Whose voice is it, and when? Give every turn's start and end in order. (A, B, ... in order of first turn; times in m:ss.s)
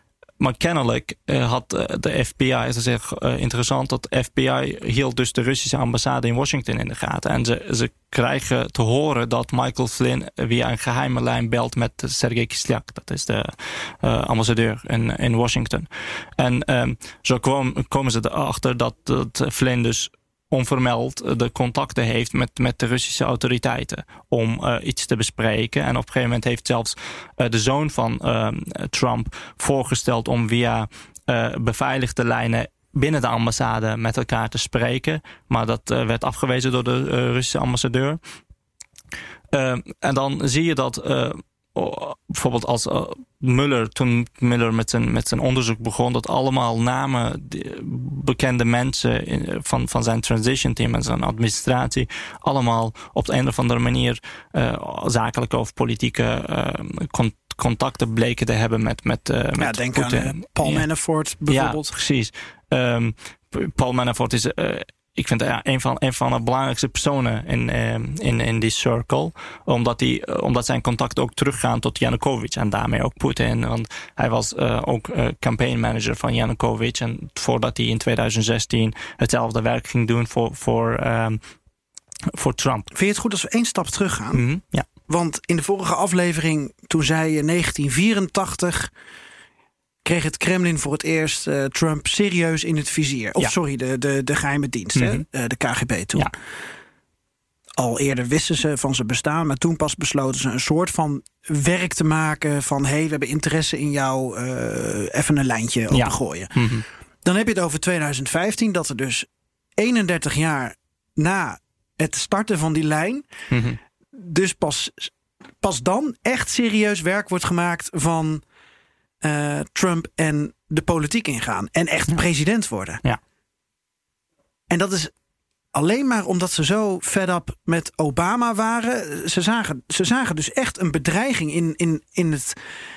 0:00.4-0:38.2 A
0:39.5-1:00.9 A
0:59.6-1:01.9 B
1:01.5-1:21.4 A
1:22.3-1:22.9 A
1:22.9-1:24.4 B
1:24.3-1:24.9 A
1:25.1-1:28.9 B
1:30.0-1:36.3 B
1:35.0-1:35.2 A
1:37.8-1:46.6 B
1:45.9-1:46.8 A
1:47.2-1:53.3 B
1:53.5-1:53.8 A
1:54.1-1:58.4 B
1:59.2-2:03.0 B
2:04.7-2:05.1 B
2:05.7-2:12.6 B